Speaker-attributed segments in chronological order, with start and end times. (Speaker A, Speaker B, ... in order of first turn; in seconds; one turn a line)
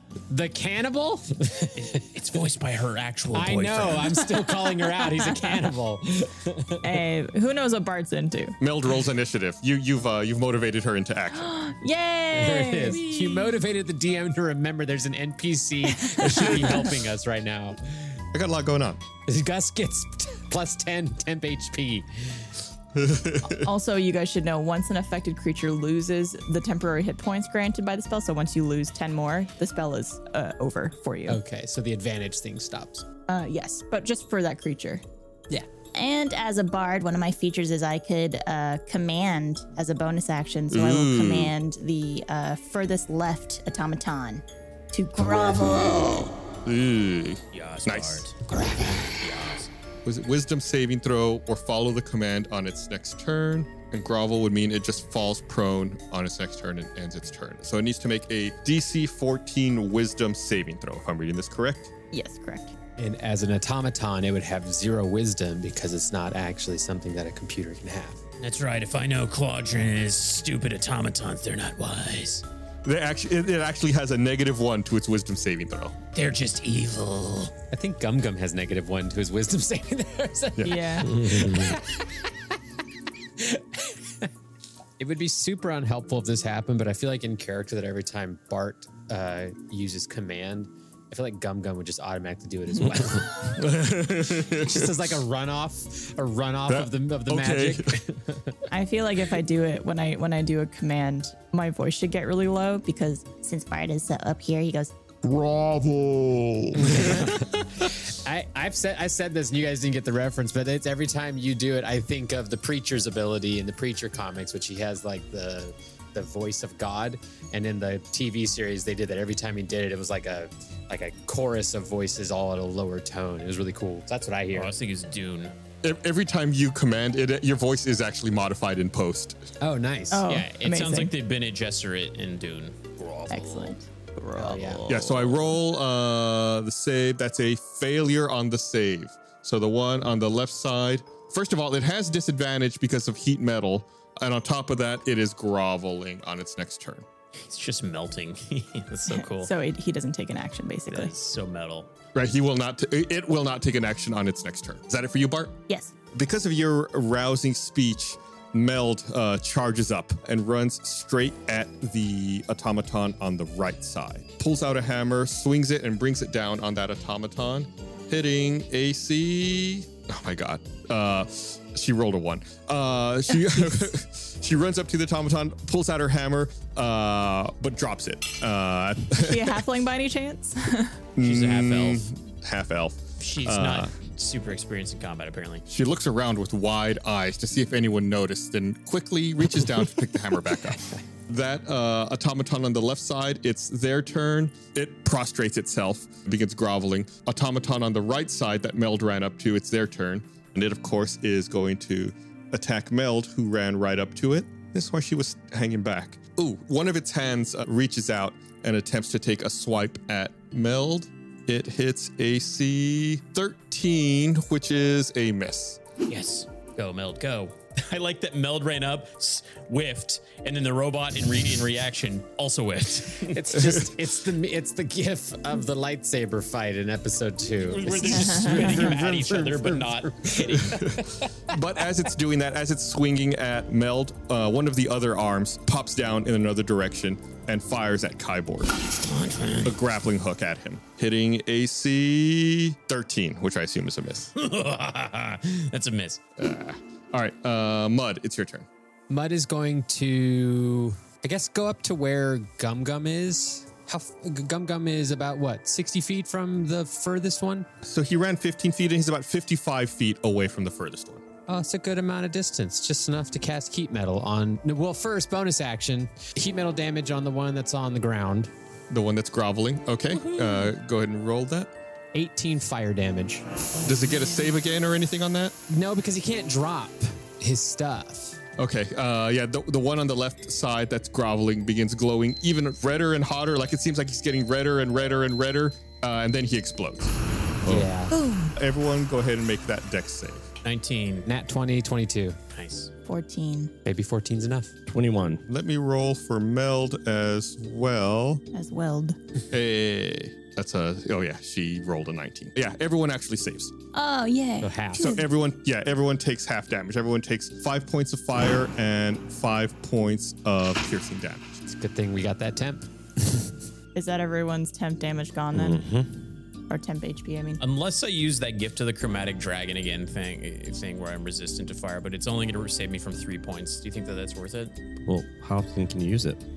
Speaker A: 0.3-2.0
Speaker B: 1.8-4.2
Speaker A: 3.3-6.8
Speaker C: 4.8-5.5
Speaker C: 6.8-8.6
Speaker D: 8.6-11.5
Speaker C: 11.3-13.1
Speaker A: 12.3-17.9
Speaker C: 16.0-16.9
Speaker D: 18.3-19.0
Speaker A: 19.3-22.4
Speaker D: 22.9-23.7
Speaker C: 23.5-31.4
Speaker A: 31.3-33.0
Speaker C: 33.3-35.0
Speaker E: 36.0-40.6
Speaker C: 40.4-44.4
Speaker D: 40.7-41.5
Speaker E: 44.0-44.4
Speaker C: 44.9-45.2
Speaker E: 45.0-46.2
Speaker D: 46.6-48.2
Speaker B: 47.5-49.7
Speaker D: 50.0-61.9
Speaker C: 62.1-62.7
Speaker A: 63.0-68.2
Speaker B: 68.4-72.4
Speaker D: 72.8-76.0
Speaker B: 76.1-77.5
Speaker A: 77.7-82.0
Speaker C: 80.6-81.1
Speaker F: 81.0-81.8
Speaker A: 83.4-84.3
Speaker A: 85.0-93.4
Speaker D: 93.5-95.0
Speaker A: 94.5-98.4
Speaker D: 96.7-97.9
Speaker C: 98.7-103.4
Speaker E: 103.4-104.9
Speaker D: 105.2-107.3
Speaker A: 106.8-124.7
Speaker B: 124.5-125.5
Speaker D: 125.8-129.5
Speaker A: 129.6-130.2
Speaker C: 130.1-131.1
Speaker B: 130.3-135.4
Speaker C: 133.3-133.8
Speaker A: 134.3-135.1
Speaker D: 134.9-147.1
Speaker B: 147.4-149.5
Speaker C: 149.1-151.1
Speaker B: 150.9-151.9
Speaker D: 152.1-155.6
Speaker D: 156.1-179.6
Speaker C: 179.2-180.9
Speaker D: 181.2-183.9
Speaker B: 181.2-182.1
Speaker B: 183.2-185.6
Speaker D: 185.7-215.8
Speaker B: 216.1-223.4
Speaker A: 223.3-230.7
Speaker B: 227.6-230.9
Speaker C: 228.3-228.7
Speaker D: 230.7-238.7
Speaker B: 239.0-239.8
Speaker D: 239.6-244.3
Speaker B: 244.4-246.2
Speaker D: 246.4-248.7
Speaker A: 249.1-257.7
Speaker D: 257.8-261.2
Speaker A: 261.5-268.5
Speaker D: 268.9-271.7
Speaker A: 272.1-273.4
Speaker D: 273.8-275.6
Speaker A: 275.7-278.4
Speaker D: 278.6-287.8
Speaker A: 287.6-288.1
Speaker C: 288.1-288.5
Speaker D: 288.6-290.4
Speaker B: 290.6-291.3
Speaker A: 291.3-292.4
Speaker B: 292.5-292.9
Speaker C: 293.1-293.7
Speaker A: 293.8-294.7
Speaker F: 294.9-295.4
Speaker D: 295.5-298.4
Speaker C: 298.5-299.2
Speaker D: 299.5-303.7
Speaker C: 303.9-305.2
Speaker A: 304.6-305.1
Speaker D: 304.9-311.6
Speaker A: 311.6-313.5
Speaker C: 313.9-315.8
Speaker F: 315.5-316.1
Speaker C: 316.7-317.6
Speaker B: 317.6-324.7
Speaker F: 325.1-326.4